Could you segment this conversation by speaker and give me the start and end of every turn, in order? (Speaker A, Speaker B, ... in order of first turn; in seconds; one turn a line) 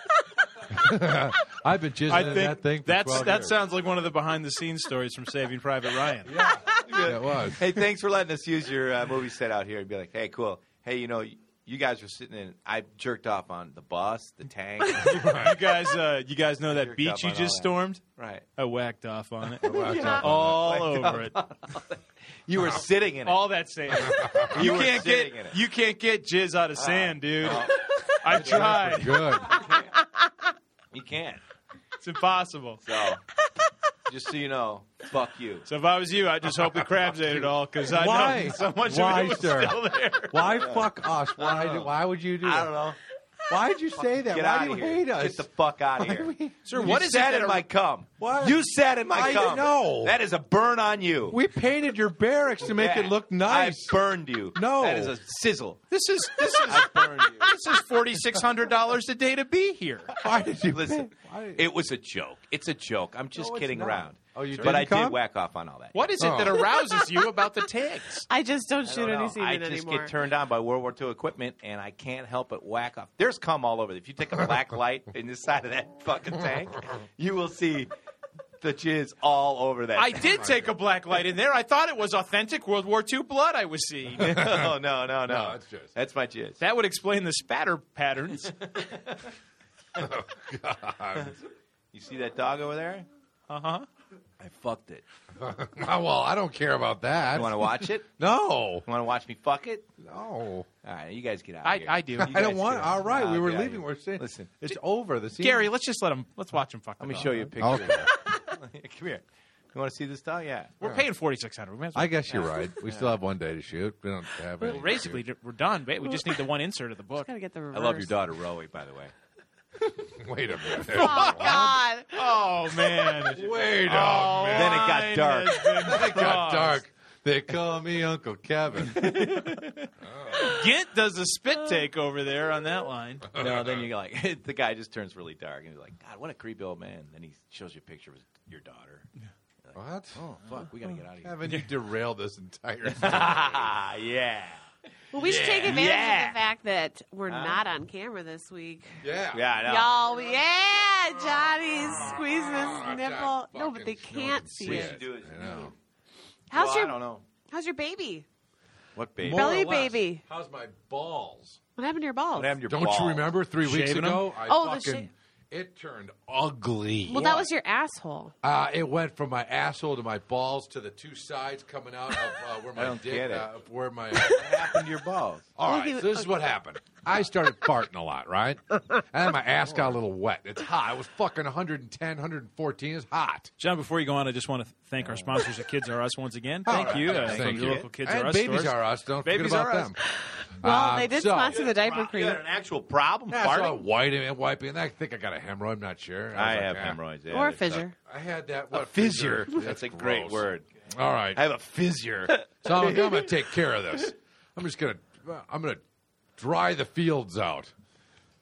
Speaker A: 0.7-3.6
Speaker B: 2.1-6.5
Speaker A: 6.2-7.8
Speaker C: 6.7-15.4
Speaker A: 15.0-15.6
Speaker B: 15.2-18.0
Speaker C: 16.7-18.5
Speaker B: 18.6-21.4
Speaker A: 19.6-20.7
Speaker C: 19.6-25.6
Speaker B: 23.2-29.4
Speaker A: 23.9-24.7
Speaker C: 26.8-28.7
Speaker A: 28.3-29.6
Speaker C: 29.6-29.9
Speaker C: 30.9-31.4
Speaker B: 32.0-32.8
Speaker C: 32.8-33.2
Speaker C: 34.1-35.7
Speaker B: 35.7-39.7
Speaker A: 37.9-42.7
Speaker C: 38.6-41.9
Speaker C: 42.4-43.0
Speaker A: 43.5-46.9
Speaker C: 44.0-51.4
Speaker B: 46.6-47.6
Speaker A: 48.2-50.2
Speaker A: 51.3-54.0
Speaker C: 52.6-55.8
Speaker A: 54.5-55.1
Speaker B: 55.9-60.1
Speaker C: 56.5-57.5
Speaker A: 60.2-61.6
Speaker C: 60.2-66.1
Speaker A: 63.4-65.2
Speaker B: 64.5-64.8
Speaker B: 65.9-68.3
Speaker A: 66.2-66.7
Speaker D: 68.3-70.1
Speaker C: 68.8-77.9
Speaker C: 78.6-80.3
Speaker B: 80.0-84.5
Speaker A: 80.2-80.7
Speaker A: 84.2-85.9
Speaker C: 84.2-86.6
Speaker B: 86.6-88.9
Speaker A: 90.0-91.4
Speaker C: 91.9-93.1
Speaker B: 93.5-93.9
Speaker C: 94.4-95.0
Speaker A: 95.4-98.9
Speaker C: 97.3-98.1
Speaker C: 98.8-99.9
Speaker A: 100.0-100.7
Speaker C: 100.8-104.6
Speaker B: 101.6-102.9
Speaker A: 102.2-105.7
Speaker B: 105.4-107.5
Speaker C: 107.0-110.8
Speaker A: 107.6-108.1
Speaker B: 110.8-112.5
Speaker A: 111.9-115.2
Speaker C: 112.8-113.1
Speaker B: 114.6-117.3
Speaker D: 117.2-118.1
Speaker C: 117.7-119.1
Speaker A: 120.0-121.7
Speaker D: 120.9-122.2
Speaker B: 121.2-121.6
Speaker B: 122.1-126.8
Speaker C: 123.1-123.3
Speaker A: 123.3-124.9
Speaker C: 124.5-125.9
Speaker A: 125.7-129.2
Speaker C: 128.9-129.9
Speaker A: 130.0-130.7
Speaker B: 130.3-133.4
Speaker A: 133.3-133.9
Speaker C: 133.3-139.1
Speaker C: 139.6-141.3
Speaker A: 139.7-140.7
Speaker A: 141.2-143.7
Speaker C: 142.9-144.6
Speaker D: 145.1-149.0
Speaker C: 145.2-146.4
Speaker A: 145.2-145.9
Speaker C: 147.3-147.6
Speaker A: 149.0-149.5
Speaker C: 149.3-150.0
Speaker D: 149.6-155.0
Speaker A: 151.8-155.7
Speaker C: 154.6-155.7
Speaker D: 156.5-158.3
Speaker C: 156.5-157.2
Speaker C: 158.9-159.7
Speaker A: 159.2-161.6
Speaker D: 159.3-160.2
Speaker D: 161.8-162.6
Speaker C: 162.3-163.3
Speaker A: 162.7-167.5
Speaker B: 163.6-164.3
Speaker D: 164.4-165.1
Speaker D: 167.1-168.3
Speaker C: 167.2-167.4
Speaker A: 168.4-174.6
Speaker C: 172.8-173.5
Speaker C: 174.2-175.5
Speaker A: 175.6-183.5
Speaker D: 175.6-176.3
Speaker B: 183.6-190.0
Speaker C: 185.0-185.3
Speaker A: 186.7-190.0
Speaker C: 186.7-187.9
Speaker D: 190.4-192.4
Speaker A: 190.6-191.7
Speaker C: 191.5-193.8
Speaker A: 193.3-197.0
Speaker C: 196.3-197.8
Speaker D: 197.3-197.9
Speaker A: 197.9-201.4
Speaker C: 198.7-200.7
Speaker C: 201.3-203.3
Speaker A: 202.6-205.8
Speaker A: 206.4-207.7